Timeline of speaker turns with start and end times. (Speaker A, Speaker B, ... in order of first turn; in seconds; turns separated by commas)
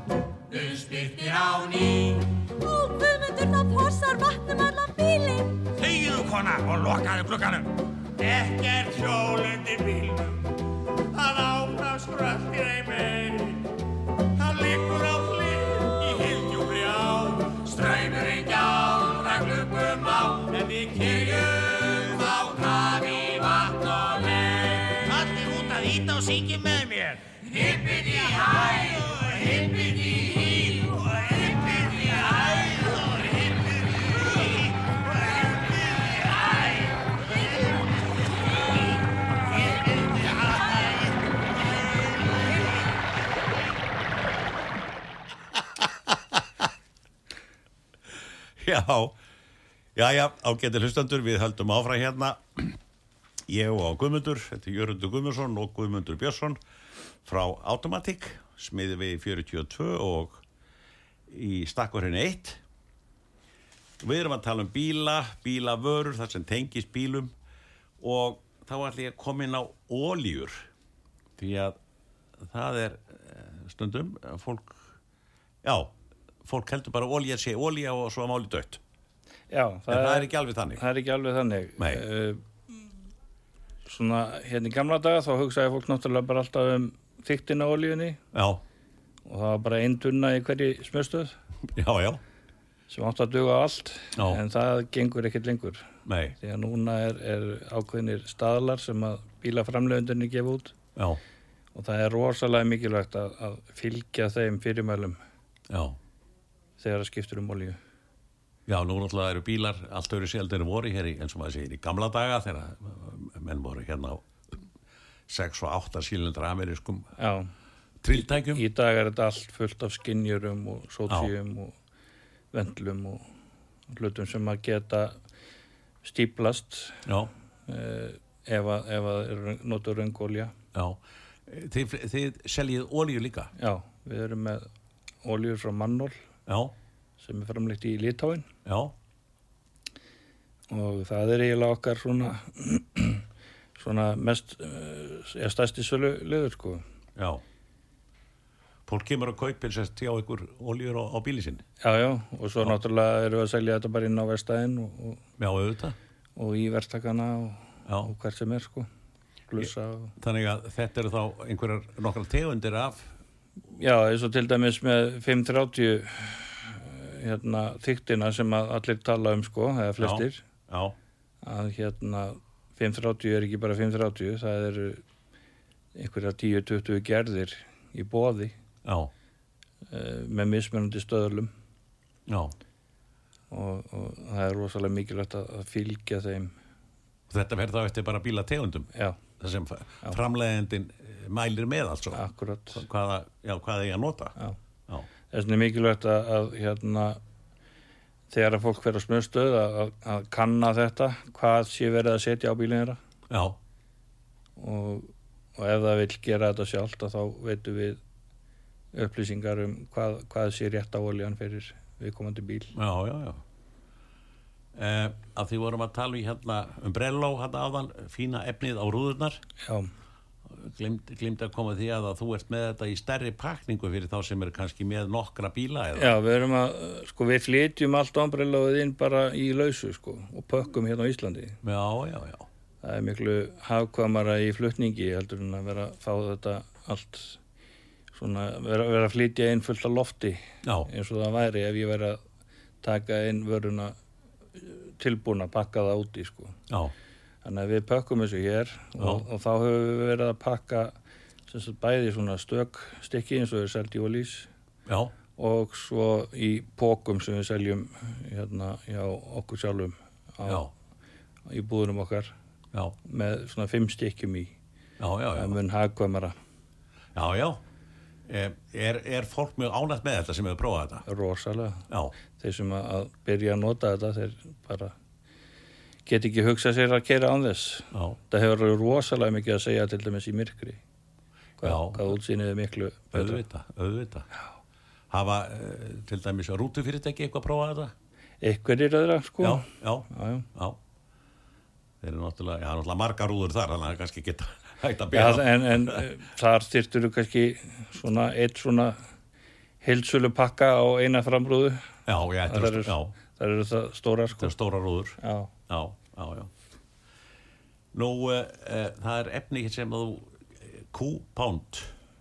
Speaker A: 0.5-2.4, Speaker B: 2.6-5.7, Speaker A: 5.8-13.8, Speaker A: 14.3-37.6, Speaker A: 39.5-40.9, Speaker C: 45.6-46.4, Speaker C: 48.6-49.2, Speaker C: 50.0-52.8, Speaker C: 53.5-56.6, Speaker C: 57.3-60.4, Speaker C: 61.3-62.6, Speaker C: 64.0-67.3, Speaker C: 68.0-70.7, Speaker C: 71.4-71.8, Speaker C: 72.4-74.8, Speaker C: 75.6-75.9, Speaker C: 76.5-78.8, Speaker D: 79.5-82.4, Speaker C: 79.9-80.8, Speaker C: 81.8-82.0, Speaker D: 83.9-88.2, Speaker C: 88.3-88.6, Speaker D: 89.2-91.4, Speaker C: 91.7-92.2, Speaker D: 92.9-100.8, Speaker C: 94.2-94.4, Speaker C: 96.1-96.4, Speaker C: 101.0-101.2, Speaker D: 101.8-105.2, Speaker C: 105.7-106.0, Speaker D: 106.8-107.8, Speaker C: 108.7-114.5, Speaker C: 115.3-117.1, Speaker D: 117.2-117.5, Speaker C: 118.0-118.6, Speaker D: 118.1-121.8, Speaker D: 122.5-123.2, Speaker D: 123.9-125.2, Speaker D: 126.0-127.1, Speaker C: 127.1-127.3, Speaker D: 127.7-130.5, Speaker C: 130.7-133.5, Speaker D: 133.6-134.7, Speaker D: 135.2-136.2, Speaker C: 136.5-136.7, Speaker D: 137.2-138.5, Speaker C: 138.7-138.9, Speaker D: 140.7-143.2, Speaker D: 143.8-146.8, Speaker C: 147.2-147.4, Speaker C: 148.9-151.7, Speaker D: 151.8-155.2, Speaker C: 155.4-156.0, Speaker D: 156.4-158.9, Speaker C: 157.9-158.1, Speaker D: 159.5-160.2, Speaker C: 160.2-163.1, Speaker D: 163.8-170.4, Speaker C: 170.0-170.9, Speaker D: 171.4-175.0, Speaker D: 175.9-178.6, Speaker C: 178.8-179.1, Speaker D: 179.9-181.5, Speaker C: 182.3-182.6, Speaker D: 183.5-186.5, Speaker C: 187.3-194.3, Speaker D: 192.1-192.8, Speaker D: 195.3-197.2, Speaker D: 198.3-203.0, Speaker C: 203.3-203.6, Speaker D: 204.6-208.0, Speaker D: 208.9-212.8, Speaker C: 212.8-213.4, Speaker C: 214.7-219.4, Speaker D: 219.6-219.9, Speaker C: 220.5-226.2, Speaker D: 225.9-231.6, Speaker C: 231.6-232.5, Speaker D: 232.8-237.4, Speaker D: 238.2-242.2, Speaker C: 240.6-240.9, Speaker D: 242.8-243.9, Speaker D: 244.6-246.6, Speaker D: 247.4-250.9, Speaker C: 249.0-249.2, Speaker D: 251.5-254.5, Speaker C: 254.9-255.1, Speaker D: 255.4-260.7, Speaker C: 260.4-260.7, Speaker D: 261.5-262.3, Speaker D: 263.0-264.6, Speaker C: 265.0-265.6, Speaker D: 265.4-266.4, Speaker C: 267.1-267.6, Speaker C: 268.3-271.1, Speaker D: 271.1-271.9, Speaker C: 271.9-272.1, Speaker D: 272.4-274.9, Speaker D: 276.1-280.8, Speaker C: 277.9-278.2, Speaker D: 281.6-283.4, Speaker C: 281.6-282.1, Speaker C: 283.1-284.3, Speaker C: 285.1-287.9, Speaker D: 288.4-290.5, Speaker C: 289.4-290.8, Speaker C: 292.0-296.0, Speaker D: 295.1-299.0, Speaker D: 299.8-301.9, Speaker C: 302.1-303.1, Speaker D: 302.5-304.5, Speaker C: 304.4-306.5, Speaker D: 305.2-305.5, Speaker C: 307.9-311.9